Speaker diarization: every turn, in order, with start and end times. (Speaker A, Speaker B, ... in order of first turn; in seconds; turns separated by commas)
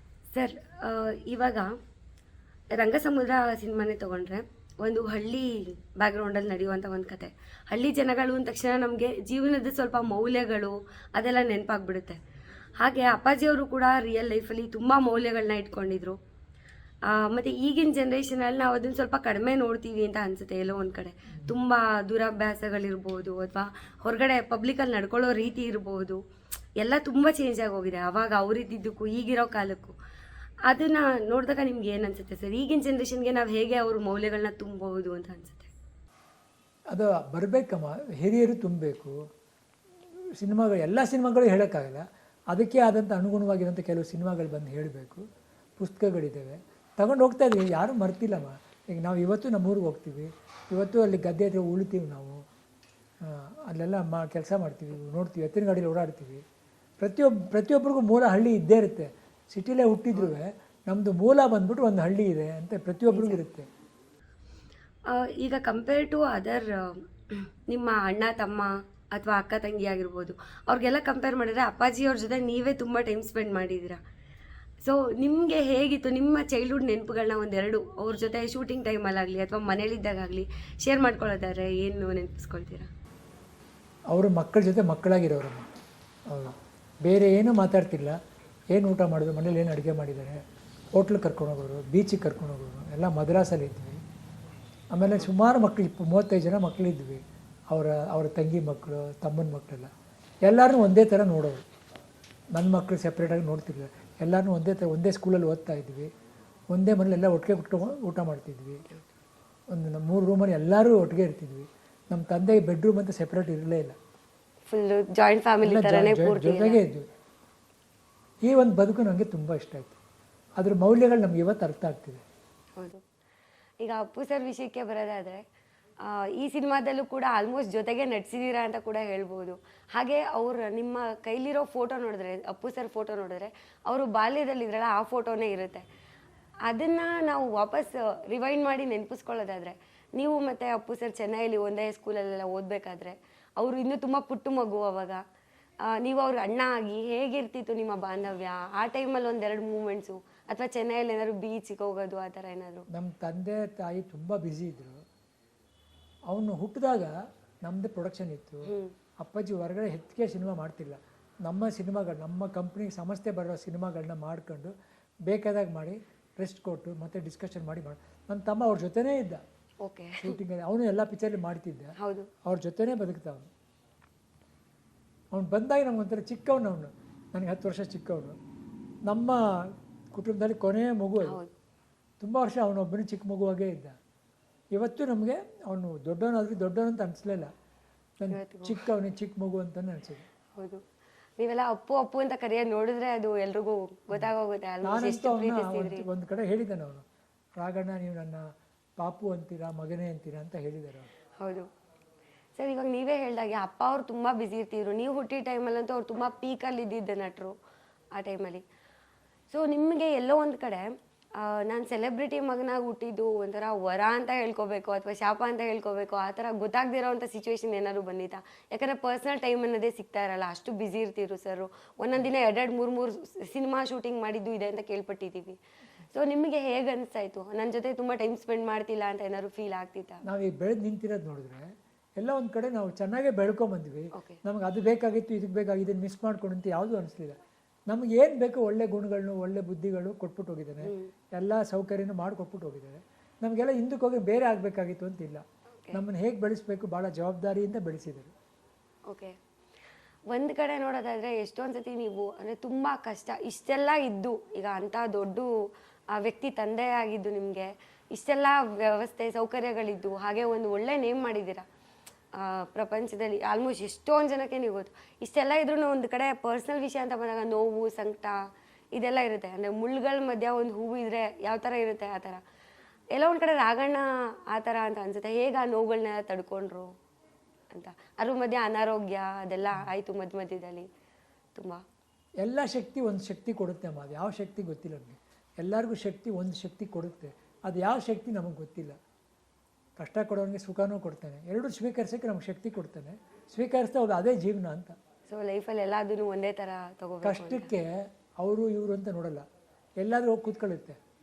Speaker A: 0.3-1.7, Speaker A: 2.7-12.2, Speaker A: 12.8-16.2, Speaker A: 17.1-26.2, Speaker A: 26.8-29.9, Speaker A: 30.7-35.7, Speaker B: 36.9-39.2, Speaker B: 40.4-45.2, Speaker B: 45.8-52.4, Speaker B: 53.2-56.4, Speaker B: 57.0-63.7, Speaker A: 63.1-63.4, Speaker A: 65.1-74.0, Speaker A: 74.8-82.9, Speaker B: 84.1-85.7, Speaker B: 86.3-88.2, Speaker B: 88.7-90.4, Speaker B: 91.0-94.0, Speaker B: 94.9-99.9, Speaker B: 100.5-101.6, Speaker B: 102.6-106.1, Speaker B: 106.7-108.8, Speaker B: 109.7-114.0, Speaker A: 114.7-116.8, Speaker B: 115.6-117.1, Speaker B: 118.5-120.0, Speaker B: 120.6-122.2, Speaker A: 122.8-123.0, Speaker A: 123.8-125.4, Speaker A: 126.0-135.8, Speaker A: 136.7-145.2, Speaker A: 145.9-152.9, Speaker B: 152.9-155.0, Speaker B: 156.3-157.1, Speaker B: 157.7-164.7, Speaker A: 158.7-158.9, Speaker B: 165.3-169.4, Speaker A: 169.8-170.4, Speaker B: 170.2-171.9, Speaker A: 172.0-172.3, Speaker B: 172.5-173.5, Speaker B: 175.3-178.4, Speaker B: 179.1-179.4, Speaker B: 180.2-181.4, Speaker A: 181.3-181.5, Speaker B: 182.2-184.0, Speaker B: 184.8-187.5, Speaker B: 188.2-190.3, Speaker A: 188.3-188.8, Speaker A: 190.6-190.8, Speaker A: 191.4-196.1, Speaker B: 194.8-197.0, Speaker B: 197.6-198.4, Speaker B: 199.0-201.1, Speaker A: 201.4-201.7, Speaker A: 202.6-207.5, Speaker A: 208.2-208.6, Speaker A: 209.5-225.6, Speaker A: 226.1-230.2, Speaker B: 230.2-248.3, Speaker A: 240.8-241.1, Speaker A: 249.1-249.3, Speaker A: 250.3-255.5, Speaker A: 256.1-261.6, Speaker A: 262.3-268.4, Speaker A: 268.9-272.4, Speaker A: 273.1-276.9, Speaker A: 277.7-280.9, Speaker A: 281.6-281.8, Speaker B: 282.4-289.0, Speaker B: 290.0-295.0, Speaker A: 295.3-297.7, Speaker B: 297.2-297.9, Speaker B: 298.4-299.4, Speaker B: 300.0-301.0